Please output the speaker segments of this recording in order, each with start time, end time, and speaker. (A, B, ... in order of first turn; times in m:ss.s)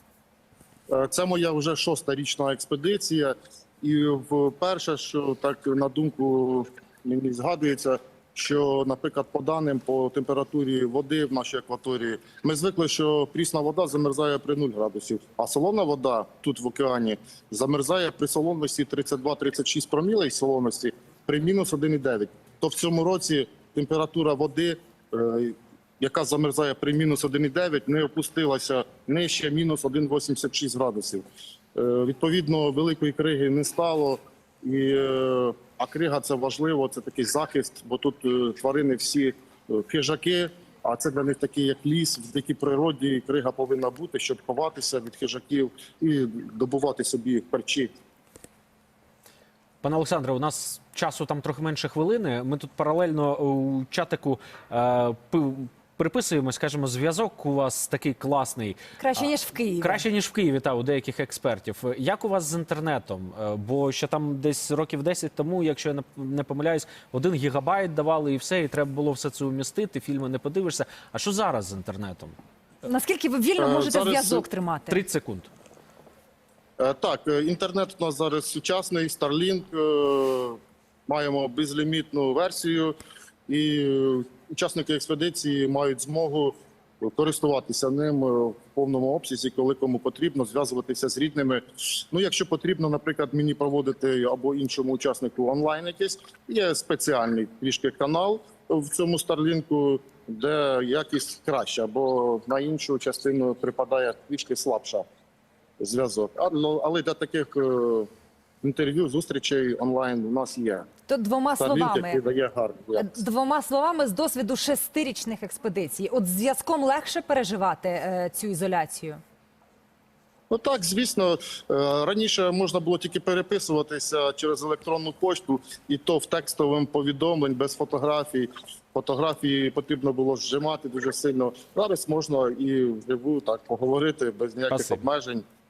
0:00.9-0:47.9 A
0:49.8-0:59.3 B
0:59.0-1:00.0 C
0:59.8-1:12.3 B
1:12.8-1:15.0 C
1:13.6-1:14.4 A
1:14.9-1:15.5 B
1:16.8-1:22.9 A
1:23.5-1:45.0 A
1:45.8-1:48.1 A
1:48.6-1:50.9 A
1:51.1-1:52.2 C
1:51.6-1:53.2 A
1:52.9-1:59.2 C
2:00.5-2:15.4 A
2:14.7-2:15.0 B